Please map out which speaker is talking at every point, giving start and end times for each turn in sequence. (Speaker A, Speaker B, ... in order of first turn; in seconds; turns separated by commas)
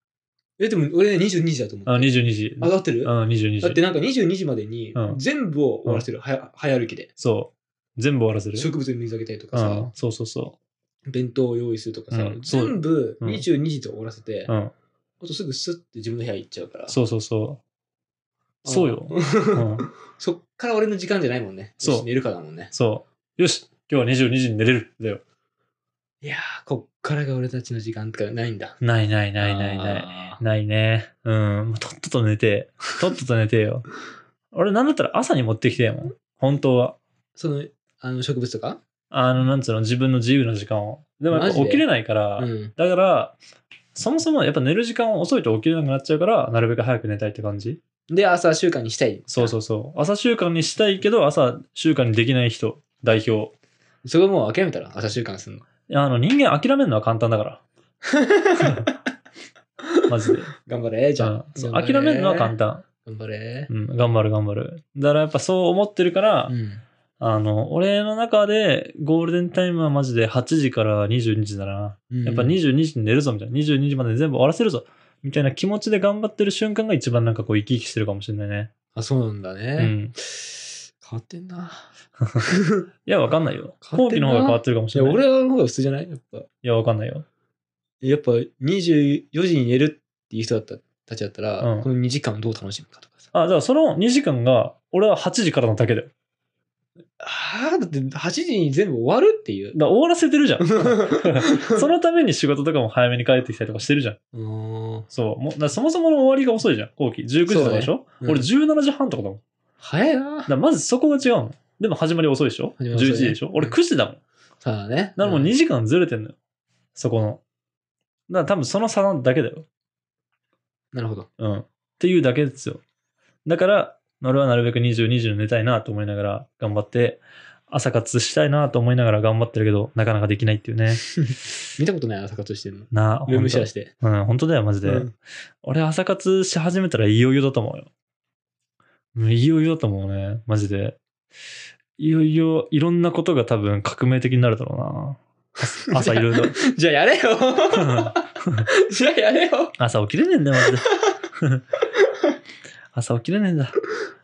Speaker A: 0.6-7.1, Speaker B: 1.9-3.8, Speaker B: 4.9-5.2, Speaker B: 7.2-8.7, Speaker A: 8.6-9.9, Speaker B: 9.5-10.6, Speaker A: 11.1-14.5, Speaker B: 12.1-13.4, Speaker A: 15.2-16.9, Speaker B: 16.9-17.6, Speaker A: 18.6-22.7, Speaker B: 18.6-19.9, Speaker B: 21.8-22.1, Speaker B: 22.7-25.2, Speaker A: 26.2-28.8, Speaker B: 28.8-33.9, Speaker A: 29.4-30.4, Speaker B: 34.5-37.0, Speaker A: 37.4-38.8, Speaker B: 39.1-43.4, Speaker A: 41.3-41.9, Speaker A: 42.4-42.7, Speaker B: 43.9-47.8, Speaker A: 48.1-49.5, Speaker B: 49.3-53.5, Speaker A: 54.0-55.6, Speaker B: 55.9-57.6, Speaker A: 58.0-58.9, Speaker B: 58.6-58.9, Speaker B: 60.1-60.5, Speaker A: 60.6-62.5, Speaker B: 61.2-62.9, Speaker A: 63.0-63.7, Speaker B: 63.7-66.5, Speaker A: 66.5-66.8, Speaker B: 67.2-78.7, Speaker A: 72.1-72.6, Speaker A: 78.9-81.9, Speaker B: 79.8-80.1, Speaker A: 82.4-82.8, Speaker B: 83.0-85.2, Speaker A: 83.8-86.5, Speaker B: 86.6-87.2, Speaker A: 88.0-93.3, Speaker B: 91.6-91.9, Speaker B: 93.3-96.1, Speaker A: 97.2-99.8, Speaker B: 99.7-104.2, Speaker A: 100.6-101.9, Speaker A: 104.3-105.1, Speaker B: 105.1-109.4, Speaker A: 107.5-108.5, Speaker A: 109.8-110.5, Speaker B: 110.5-114.2, Speaker A: 112.8-113.8, Speaker A: 114.6-115.5, Speaker B: 115.2-116.3, Speaker B: 116.9-117.4, Speaker B: 118.3-119.7, Speaker A: 120.9-121.3, Speaker B: 121.4-122.8, Speaker B: 123.4-131.5, Speaker A: 131.8-133.9, Speaker B: 132.9-137.9, Speaker A: 134.8-135.1, Speaker B: 139.1-141.0, Speaker B: 142.0-146.6, Speaker A: 145.9-148.2, Speaker B: 147.7-148.7, Speaker A: 148.8-149.7, Speaker B: 149.8-151.7, Speaker A: 150.8-151.1, Speaker B: 152.9-153.8